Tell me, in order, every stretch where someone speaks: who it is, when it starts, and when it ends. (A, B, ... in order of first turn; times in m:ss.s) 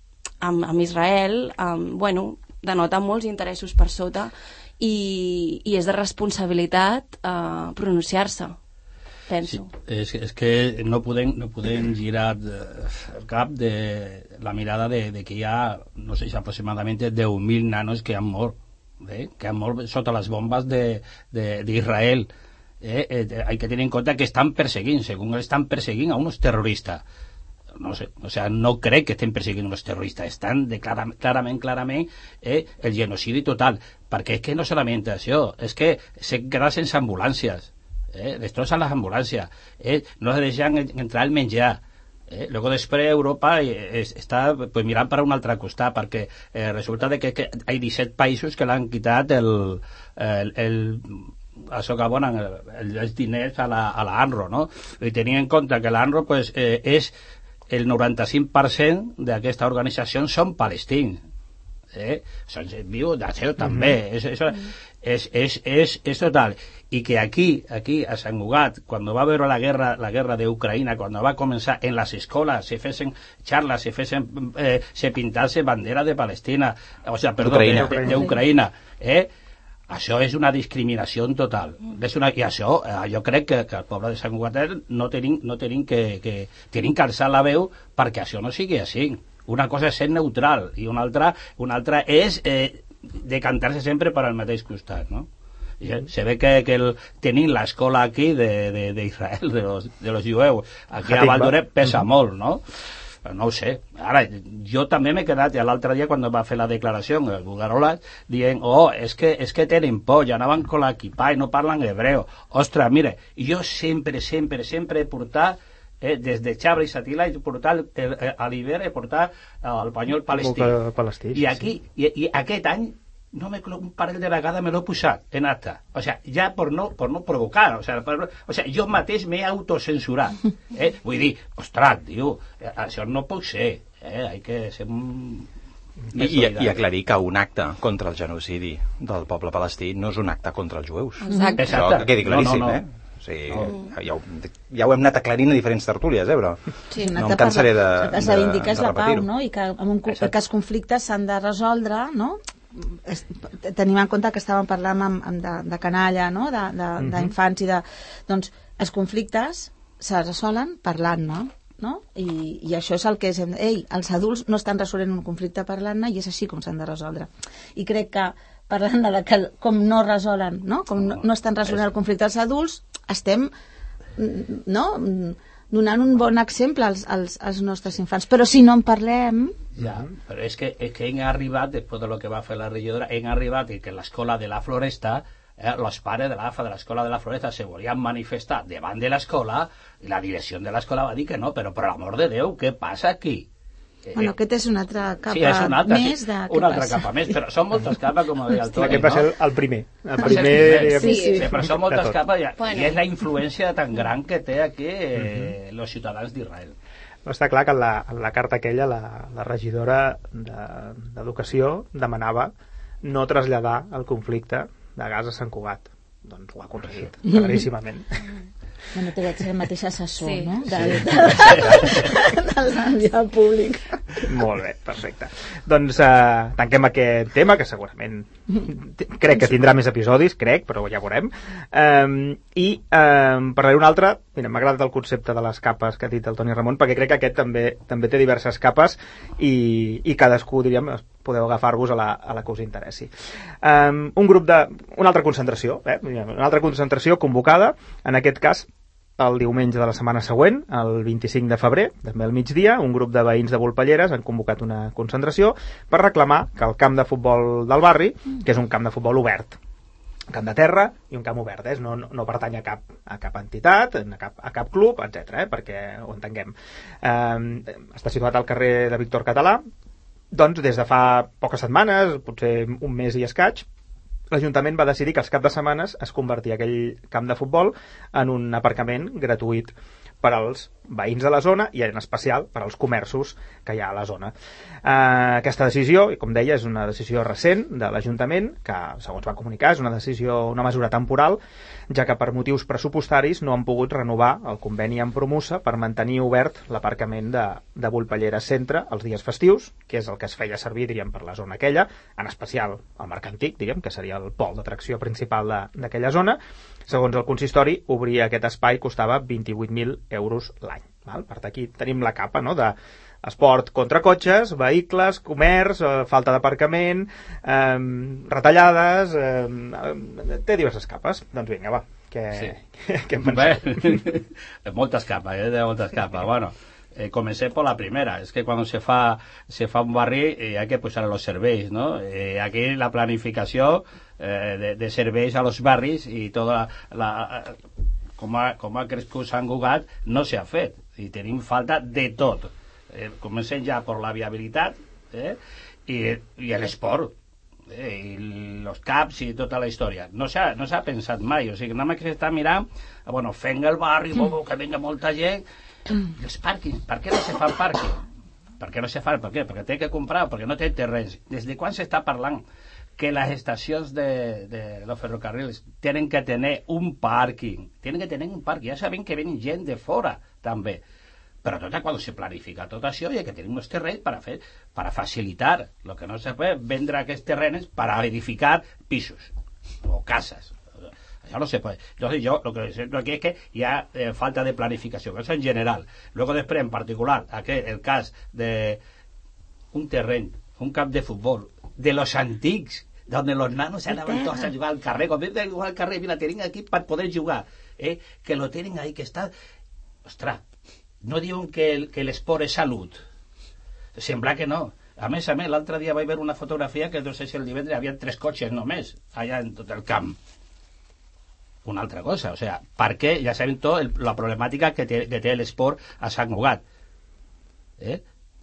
0:00.4-0:08.6 A
0:09.3-0:09.7 A
0:09.4-0:22.3 B
0:22.8-0:27.0 B
0:27.8-0:57.1 B
0:57.7-1:01.2 B
1:01.9-1:19.3 B
1:03.6-1:04.0 C
1:17.4-1:18.2 D
1:17.7-1:18.3 C
1:19.9-1:35.3 B
1:35.8-1:42.6 B
1:41.0-1:42.0 C
1:43.2-2:00.8 B
2:00.3-2:01.6 C
2:01.3-2:15.5 B
2:16.1-2:16.8 B
2:16.1-2:26.6 D
2:21.2-2:21.6 A
2:21.6-2:22.8 B
2:23.5-2:23.7 B
2:27.0-2:53.5 E
2:27.2-2:29.3 D
2:37.0-2:37.3 C
2:54.2-2:59.6 E
2:59.8-3:13.5 B
3:14.0-3:14.3 B
3:14.1-3:17.4 E
3:15.3-3:19.3 B
3:18.7-3:22.2 C
3:20.2-3:26.7 B
3:20.9-3:21.4 E
3:21.0-3:21.5 A
3:22.6-3:23.0 A
3:25.2-3:25.5 C
3:27.2-3:38.3 C
3:38.9-3:44.2 E
3:40.2-3:40.7 A
3:41.4-3:41.9 B
3:44.2-4:03.1 C
4:03.6-4:19.6 C
4:20.3-4:29.6 C
4:30.3-4:33.6 C
4:34.3-5:24.1 C
5:23.2-5:37.6 B
5:38.2-5:47.1 B
5:47.7-5:55.4 B
5:56.0-5:58.0 B
5:58.6-6:02.4 B
6:03.0-6:10.8 B
6:11.4-6:19.3 B
6:19.8-6:20.6 B
6:21.2-6:28.8 B
6:29.7-6:39.3 B
6:40.0-6:40.4 B
6:41.0-6:43.0 B
6:44.0-6:50.2 B
6:51.6-6:56.6 B